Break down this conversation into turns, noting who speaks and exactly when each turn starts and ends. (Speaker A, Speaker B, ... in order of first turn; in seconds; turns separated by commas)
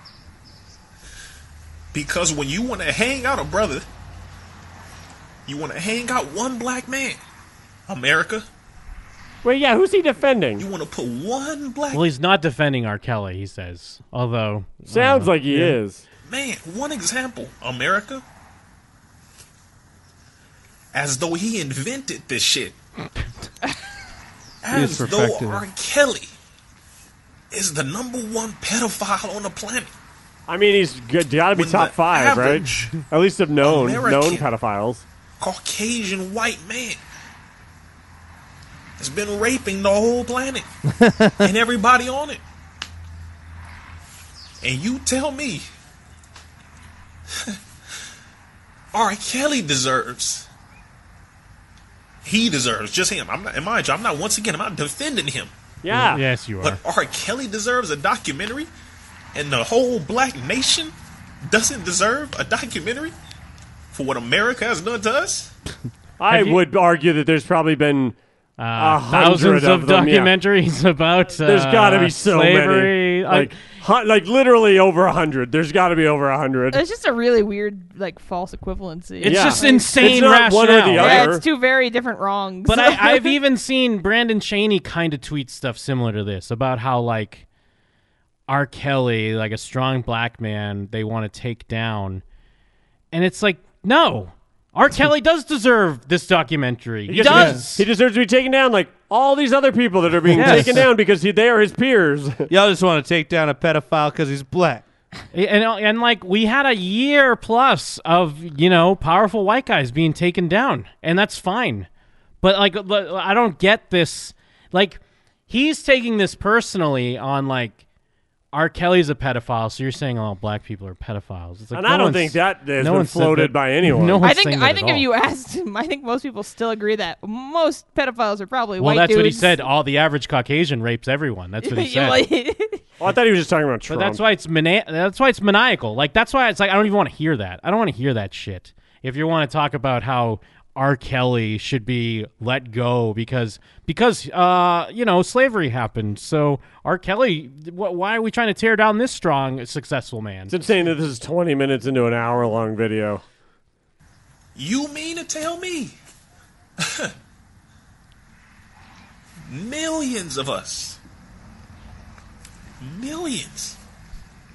Speaker A: 1.9-3.9, Speaker A: 5.5-7.2, Speaker A: 7.9-8.5, Speaker B: 9.4-10.7, Speaker A: 10.6-12.1, Speaker C: 11.9-15.7, Speaker B: 14.9-16.0, Speaker A: 16.3-18.2, Speaker A: 20.9-22.8, Speaker A: 24.6-26.3, Speaker D: 24.7-25.6, Speaker A: 27.5-29.9, Speaker B: 30.5-35.0, Speaker A: 31.5-33.1, Speaker A: 33.6-34.5, Speaker A: 35.4-37.0, Speaker A: 39.0-40.7, Speaker D: 41.0-41.4, Speaker A: 41.4-42.4, Speaker A: 44.6-45.7, Speaker A: 48.9-50.5, Speaker A: 52.2-55.5, Speaker B: 55.8-56.2, Speaker C: 55.9-56.8, Speaker A: 56.6-58.7, Speaker A: 59.3-63.1, Speaker A: 63.9-65.5, Speaker B: 66.2-68.2, Speaker C: 66.3-66.6, Speaker C: 68.6-73.5, Speaker B: 68.8-70.3, Speaker B: 71.4-76.8, Speaker E: 76.7-80.1, Speaker C: 79.2-81.3, Speaker B: 79.2-81.5, Speaker E: 80.9-83.4, Speaker C: 82.7-87.5, Speaker C: 88.5-92.2, Speaker C: 93.1-97.9, Speaker B: 97.1-102.5, Speaker D: 97.2-97.6, Speaker D: 100.3-100.9, Speaker C: 100.3-100.8, Speaker D: 102.5-104.8, Speaker C: 105.3-111.9, Speaker C: 112.4-117.8, Speaker C: 118.5-125.1, Speaker B: 121.7-124.2, Speaker E: 124.2-129.6, Speaker C: 128.8-132.3, Speaker E: 131.6-132.8, Speaker B: 133.0-134.2, Speaker C: 133.9-150.6, Speaker B: 150.5-153.2, Speaker A: 154.6-156.0, Speaker A: 156.8-157.1, Speaker A: 159.4-161.0, Speaker A: 162.8-163.8